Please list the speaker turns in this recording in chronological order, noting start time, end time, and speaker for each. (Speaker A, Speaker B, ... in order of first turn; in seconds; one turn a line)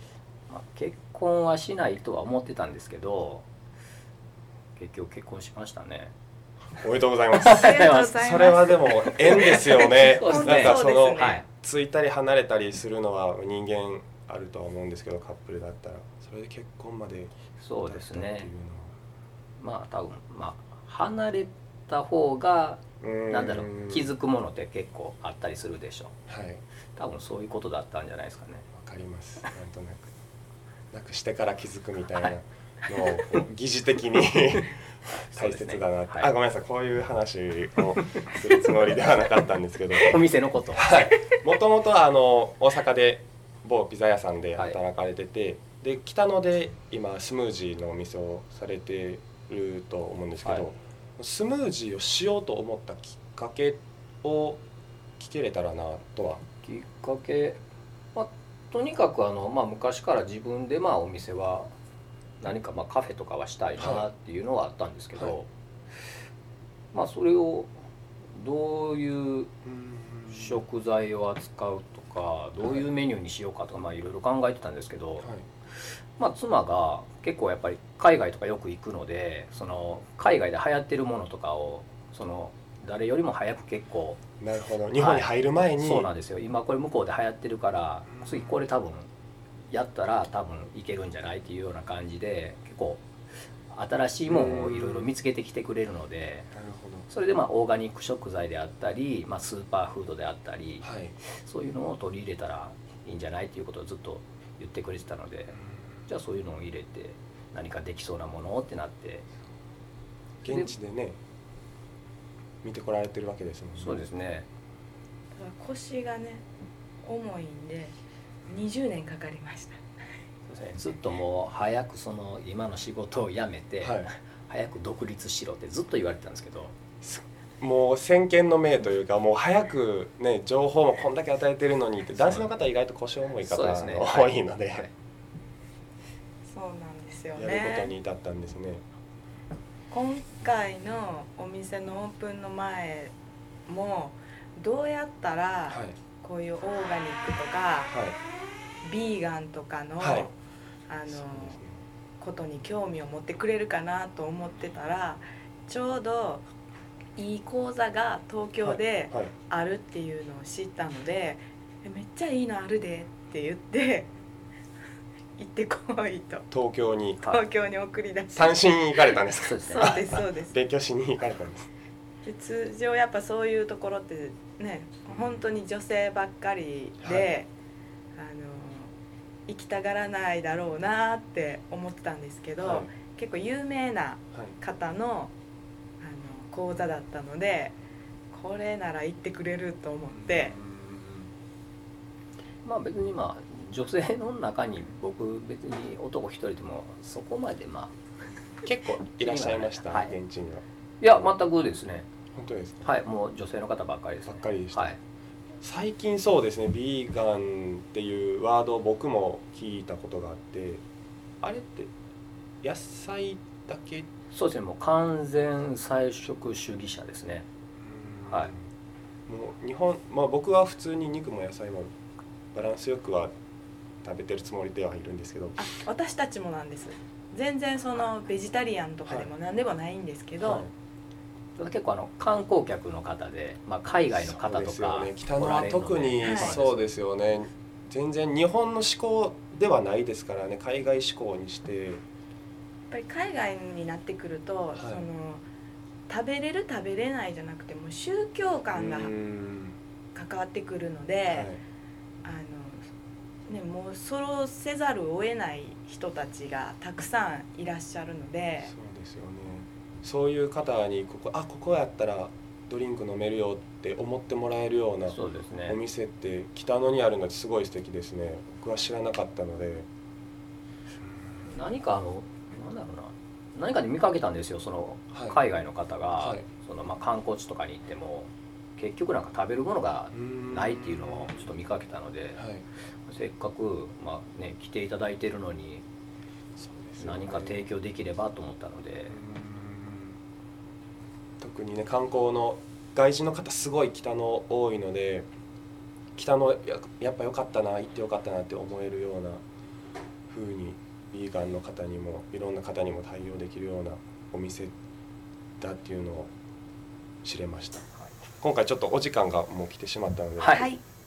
Speaker A: 0.5-3.5
Speaker A: 4.8-6.1
Speaker B: 6.8-18.9
Speaker A: 7.3-11.4
Speaker C: 7.5-11.4
Speaker A: 17.6-18.5
Speaker A: 19.6-26.1
Speaker B: 23.0-24.1
Speaker B: 26.3-26.6
Speaker A: 27.0-28.7
Speaker B: 28.8-30.1
Speaker B: 30.9-40.2
Speaker A: 32.9-33.4
Speaker A: 35.1-36.3
Speaker A: 38.2-38.5
Speaker A: 40.0-41.1
Speaker B: 40.7-54.6
Speaker A: 50.4-50.7
Speaker B: 55.2-56.4
Speaker A: 56.6-57.6
Speaker A: 58.1-61.7
Speaker A: 62.4-65.5
Speaker B: 63.8-64.1
Speaker A: 66.9-67.7
Speaker A: 68.3-69.5
Speaker B: 69.7-70.7
Speaker A: 70.3-75.3
Speaker B: 72.6-72.9
Speaker B: 75.2-75.5
Speaker A: 76.2-84.2
Speaker B: 84.4-86.1
Speaker A: 85.0-89.1
Speaker B: 88.1-88.6
Speaker A: 89.7-93.0
Speaker A: 93.7-96.5
Speaker B: 94.3-95.1
Speaker B: 96.5-97.1
Speaker A: 97.1-109.3
Speaker B: 100.8-101.2
Speaker A: 110.4-110.7
Speaker B: 110.4-111.2
Speaker B: 112.6-114.0
Speaker A: 113.8-114.5
Speaker C: 115.3-116.5
Speaker C: 117.0-118.0
Speaker C: 118.5-119.8
Speaker A: 120.5-126.8
Speaker B: 123.8-124.1
Speaker B: 127.0-134.9
Speaker A: 132.2-132.5
Speaker A: 133.4-134.9
Speaker C: 136.5-137.9
Speaker B: 137.3-138.8
Speaker C: 139.9-143.1
Speaker C: 143.7-148.0
Speaker B: 145.7-146.0
Speaker B: 147.9-148.2
Speaker C: 148.8-150.3
Speaker B: 150.0-150.3
Speaker C: 150.9-151.6
Speaker B: 151.1-151.8
Speaker C: 152.2-156.4
Speaker C: 157.2-164.1
Speaker B: 158.6-159.3
Speaker C: 165.4-166.5
Speaker B: 166.5-167.3
Speaker C: 167.2-170.5
Speaker B: 168.3-171.7
Speaker A: 169.4-170.0
Speaker C: 172.2-177.5
Speaker B: 175.1-175.4
Speaker B: 177.0-177.3
Speaker C: 178.2-178.9
Speaker C: 179.5-185.3
Speaker B: 182.6-182.9
Speaker C: 186.0-187.8
Speaker C: 188.3-190.6
Speaker B: 190.2-191.3
Speaker A: 192.7-198.0
Speaker B: 198.7-200.6
Speaker A: 199.1-200.2
Speaker A: 201.0-202.1
Speaker B: 202.3-203.0
Speaker A: 202.8-205.0
Speaker B: 204.3-204.9
Speaker B: 205.6-210.8
Speaker B: 211.4-211.9
Speaker B: 212.6-214.1
Speaker A: 214.3-217.5
Speaker B: 217.8-218.6
Speaker B: 219.3-221.9
Speaker B: 222.5-223.3
Speaker B: 224.0-225.6
Speaker C: 225.6-230.7
Speaker B: 229.1-229.3
Speaker B: 230.4-230.7
Speaker A: 231.6-236.8
Speaker B: 234.1-242.0
Speaker C: 236.2-236.6
Speaker C: 242.9-245.4
Speaker B: 244.8-245.0
Speaker C: 246.1-249.2
Speaker B: 248.7-249.8
Speaker C: 250.2-251.5
Speaker B: 251.3-251.6
Speaker C: 252.2-252.8
Speaker C: 253.5-258.7
Speaker B: 258.6-269.9
Speaker A: 265.1-265.8
Speaker A: 271.5-282.4
Speaker B: 275.1-275.4
Speaker B: 276.2-276.5
Speaker B: 280.1-281.4
Speaker B: 282.4-282.7
Speaker A: 283.1-285.8
Speaker B: 286.6-287.7
Speaker A: 287.0-289.2
Speaker B: 289.1-290.2
Speaker B: 291.4-295.3
Speaker B: 296.2-299.4
Speaker B: 300.3-304.7
Speaker B: 305.6-306.3
Speaker B: 307.2-307.9
Speaker B: 308.4-310.7
Speaker A: 310.4-310.7
Speaker C: 310.5-310.8